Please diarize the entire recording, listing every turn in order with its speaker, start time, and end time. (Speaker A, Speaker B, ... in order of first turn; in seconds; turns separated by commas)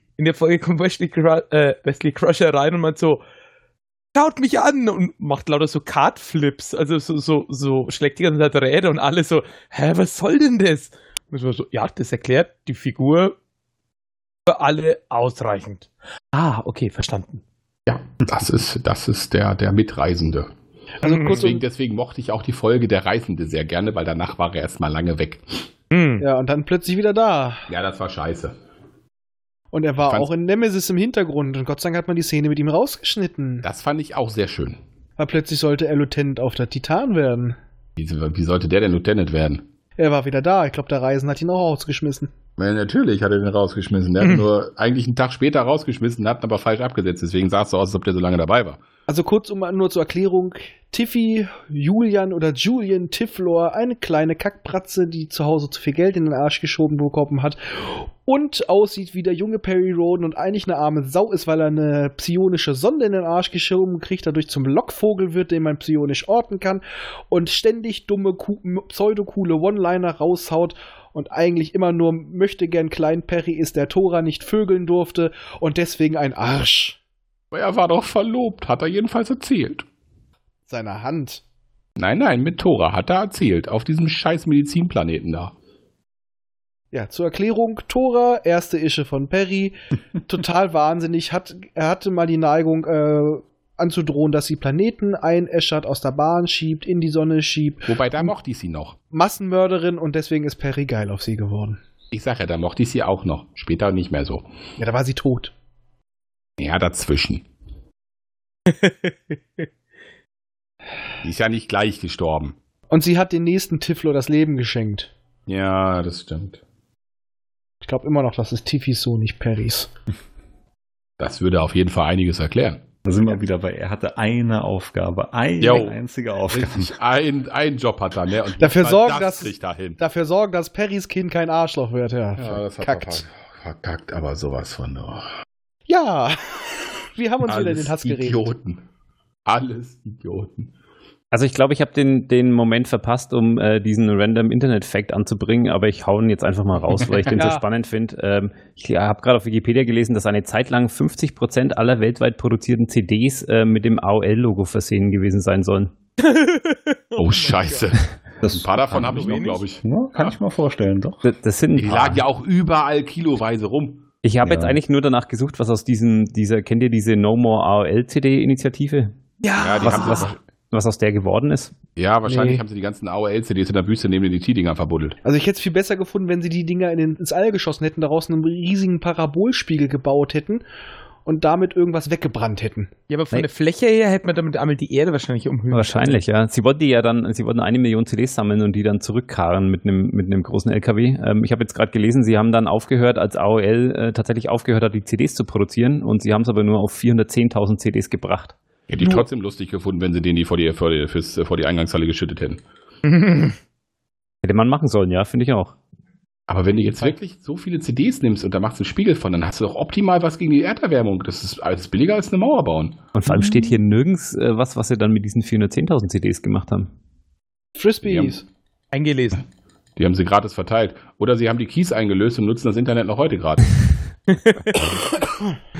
Speaker A: 0.2-3.2, Speaker A: 4.1-13.3, Speaker A: 14.5-17.4, Speaker B: 17.9-20.5, Speaker C: 21.0-21.6, Speaker A: 21.0-21.5, Speaker B: 21.2-25.6, Speaker A: 25.9-26.2, Speaker C: 26.2-27.7, Speaker B: 27.7-28.6, Speaker C: 29.7-33.6, Speaker B: 33.6-34.8, Speaker C: 35.2-37.6, Speaker B: 38.0-39.7, Speaker C: 40.0-42.3, Speaker B: 42.6-48.8, Speaker C: 49.1-77.0, Speaker B: 77.5-79.8, Speaker C: 80.7-81.4, Speaker B: 82.0-85.5, Speaker C: 86.9-98.3, Speaker B: 97.9-99.0, Speaker C: 99.1-101.8, Speaker B: 102.1-104.5, Speaker C: 104.8-105.5, Speaker B: 106.6-107.4, Speaker A: 108.7-109.7, Speaker B: 111.2-112.5, Speaker C: 112.9-115.1, Speaker B: 115.5-116.6, Speaker C: 117.8-119.9, Speaker B: 121.2-122.8, Speaker D: 123.0-126.9, Speaker B: 125.6-126.0, Speaker B: 126.5-130.0, Speaker C: 128.6-133.2, Speaker B: 132.3-135.3, Speaker C: 135.9-138.5, Speaker B: 137.5-138.8, Speaker B: 139.4-140.7, Speaker E: 141.3-155.9, Speaker C: 147.3-147.6, Speaker A: 156.2-157.9, Speaker B: 157.2-160.3, Speaker D: 158.4-161.2, Speaker A: 158.9-159.6, Speaker E: 161.2-162.2, Speaker B: 161.7-164.1, Speaker E: 164.2-169.2, Speaker D: 164.4-164.8, Speaker A: 169.4-170.3, Speaker B: 169.6-170.3, Speaker E: 169.8-171.7, Speaker B: 172.0-175.2, Speaker C: 172.2-172.6, Speaker C: 175.2-180.6, Speaker C: 181.2-182.9, Speaker A: 183.1-186.2, Speaker E: 185.7-198.6, Speaker B: 198.9-202.6, Speaker A: 203.0-203.5, Speaker E: 204.4-205.8, Speaker B: 206.5-213.0, Speaker E: 213.1-216.9, Speaker C: 217.8-218.4, Speaker B: 218.0-218.4, Speaker A: 218.9-219.4, Speaker B: 220.0-223.8, Speaker A: 224.3-224.6